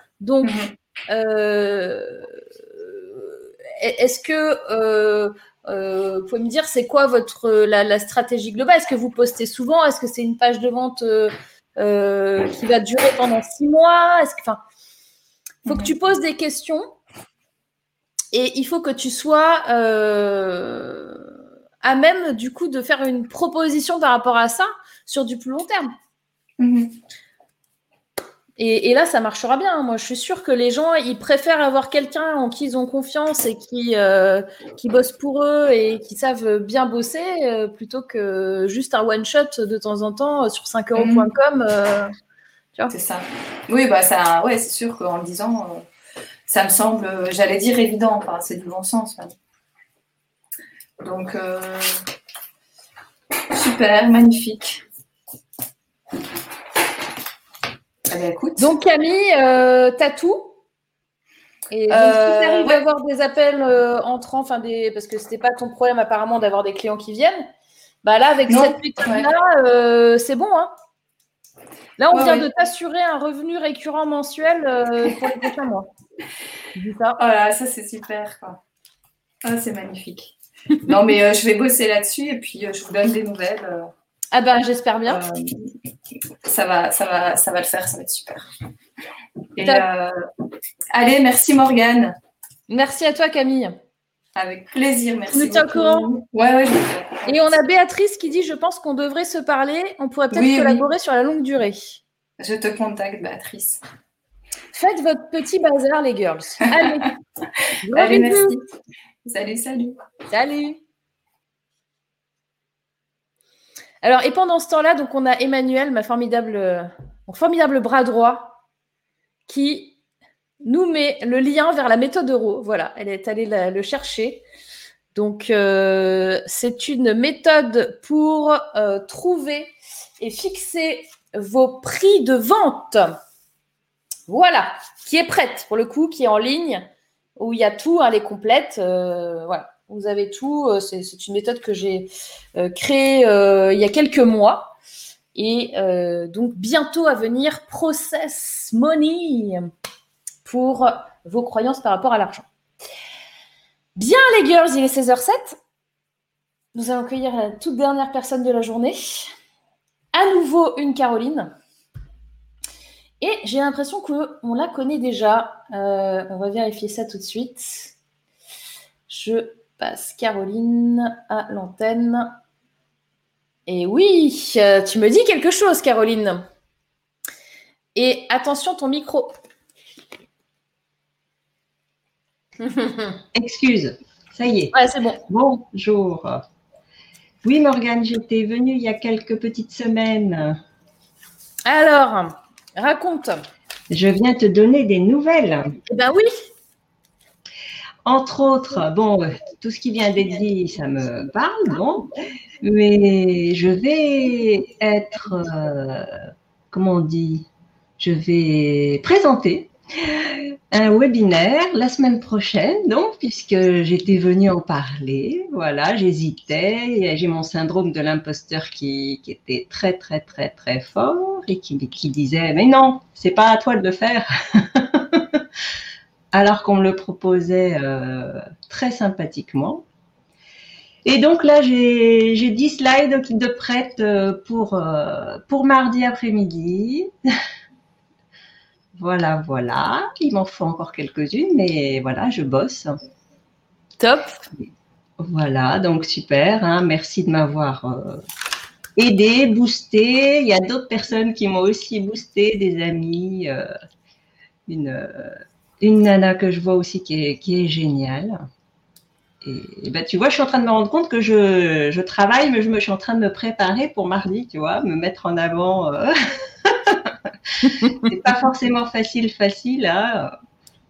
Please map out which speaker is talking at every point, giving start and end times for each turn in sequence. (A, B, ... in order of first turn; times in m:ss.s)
0:00.2-0:00.6 A
0:01.1-0:14.6 A
0:15.7-0:16.9 A
0:18.3-0:21.2 A
0:21.8-0:25.9 A
0:26.6-0:26.9 B
0:28.6-0:42.1 A
0:41.0-0:41.3 B
0:42.9-0:45.8 B
0:46.5-0:49.3 B
0:51.0-0:51.9 B
0:53.5-0:54.8 B
0:58.1-0:58.7 B
0:58.6-1:00.6 A
1:01.7-1:07.5 A
1:01.9-1:02.8 B
1:08.0-1:10.7 A
1:08.5-1:09.3 B
1:12.0-1:15.9 A
1:12.1-1:12.4 B
1:16.8-1:17.2 A
1:17.2-1:18.6 B
1:19.4-1:20.3 B
1:20.8-1:23.9 B
1:24.3-1:25.2 A
1:25.1-1:25.7 B
1:26.4-1:28.5 B
1:29.6-1:30.2 B
1:30.9-1:32.2 B
1:32.7-1:33.8 A
1:34.4-1:37.4 B
1:35.3-1:36.1 A
1:37.2-1:42.0 A
1:40.3-1:40.8 B
1:42.4-1:43.8 B
1:44.7-1:47.1 A
1:47.8-1:48.6 A
1:47.9-1:48.6 B
1:49.2-1:50.0 B
1:50.3-1:50.8 A
1:54.0-1:58.6 A
1:59.5-2:00.0 A
2:00.6-2:04.4 A
2:05.1-2:13.2 A
2:14.3-2:24.7 A
2:25.3-2:29.7 A
2:30.4-2:32.4 A
2:34.0-2:35.6 A
2:36.7-2:39.3 A
2:40.1-2:41.5 A
2:43.2-2:47.9 A
2:49.1-2:52.4 A
2:53.7-2:56.4 A
2:57.9-2:59.3 A
3:03.3-3:06.4 C
3:04.7-3:05.2 A
3:07.4-3:10.6 C
3:11.6-3:13.4 A
3:13.9-3:15.8 C
3:15.9-3:16.3 A
3:18.0-3:22.1 C
3:22.6-3:26.1 C
3:26.7-3:27.5 C
3:28.0-3:45.4 C
3:46.3-3:49.8 C
3:51.0-3:57.1 C
3:59.0-4:03.0 C
4:04.0-4:04.4 A
4:05.2-4:08.2 C
4:09.0-4:13.7 C
4:14.7-4:18.4 C
4:19.4-4:30.4 C